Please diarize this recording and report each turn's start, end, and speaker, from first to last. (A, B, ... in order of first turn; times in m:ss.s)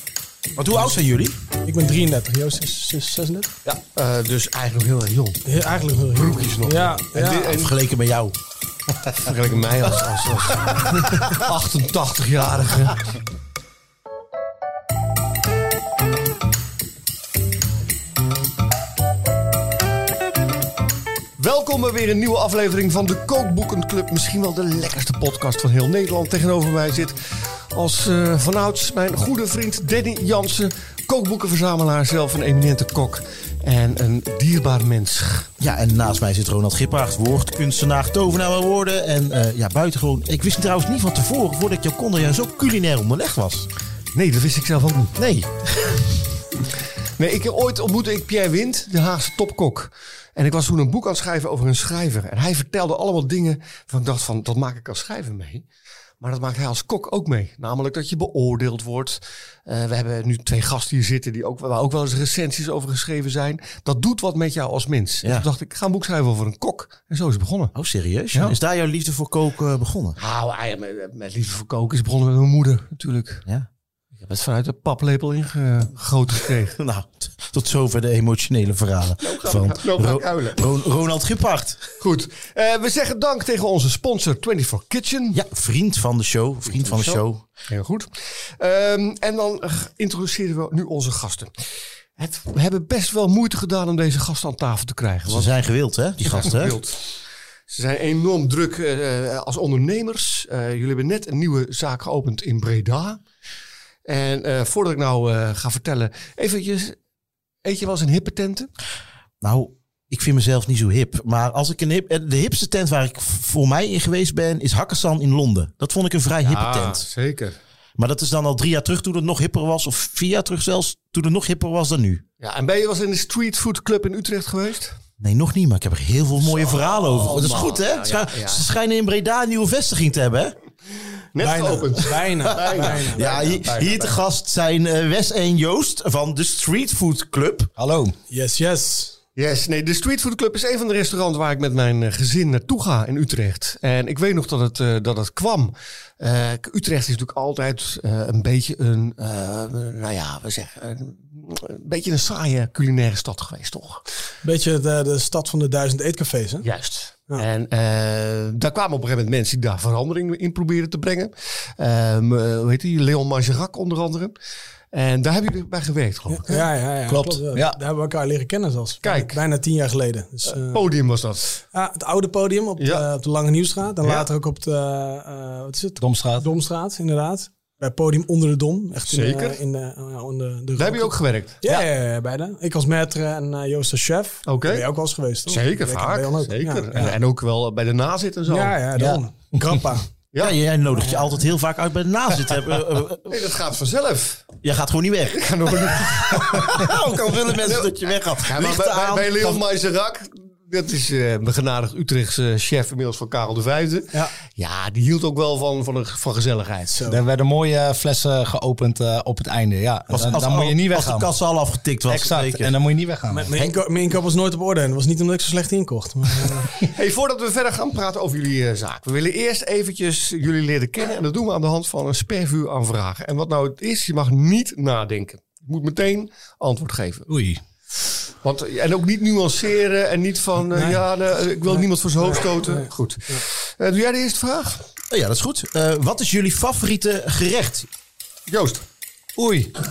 0:00.6-0:01.4 A
0:01.6-0:03.5 B
0:03.9-0:05.4 C
0:05.4-0:07.5 B
0:06.1-0:07.7 C
0:07.5-0:08.3 A
0:09.1-0:13.0 C
0:21.4-0:35.5 C
0:35.6-0:43.7 A
0:44.1-0:45.1 C
0:45.2-0:46.0 A
0:47.2-0:55.6 C
0:56.2-1:07.7 C
1:07.7-1:10.2 A
1:10.2-1:13.4 C
1:14.2-1:16.8 C
1:16.8-1:21.9 A
1:19.2-1:20.6 C
1:22.0-1:25.4 C
1:25.3-1:27.4 A
1:26.7-1:31.5 C
1:32.2-1:35.5 C
1:35.3-1:36.8 A
1:36.2-1:37.0 C
1:37.7-1:43.2 C
1:44.0-1:47.0 C
1:47.6-1:48.7 C
1:49.4-1:57.0 A
1:56.4-1:57.6 C
1:58.0-2:02.2 A
2:02.4-2:05.0 C
2:05.2-2:10.5 A
2:06.4-2:08.6 C
2:11.3-2:14.2 C
2:11.4-2:13.3 B
2:12.6-2:17.7 A
2:17.8-2:18.1 D
2:18.3-2:19.2 B
2:19.4-2:34.0 C
2:34.4-2:36.7 B
2:36.6-2:44.3 C
2:44.9-2:46.7 C
2:46.3-2:50.8 B
2:47.1-2:47.8 D
2:49.0-2:49.4 C
2:50.5-2:51.6 C
2:51.7-3:06.8 B
2:52.8-2:53.0 C
2:56.0-2:56.5 D
2:59.1-2:59.6 C
3:00.8-3:01.6 C
3:04.4-3:04.8 C
3:05.5-3:08.8 C
3:08.5-3:10.1 B
3:08.9-3:09.8 D
3:10.4-3:13.4 A
3:11.0-3:11.3 B
3:13.3-3:14.5 C
3:14.6-3:19.6 A
3:15.3-3:16.9 C
3:17.6-3:17.9 C
3:18.4-3:27.0 C
3:26.9-3:27.2 B
3:27.1-3:31.3 D
3:30.1-3:32.7 A
3:32.1-3:33.5 D
3:33.3-3:36.7 B
3:36.7-3:47.3 C
3:47.3-3:47.6 D
3:48.4-3:54.8 C
3:50.7-3:51.0 B
3:51.6-3:53.4 B
3:55.1-3:57.9 A
3:58.5-3:58.8 C
3:59.4-3:59.7 D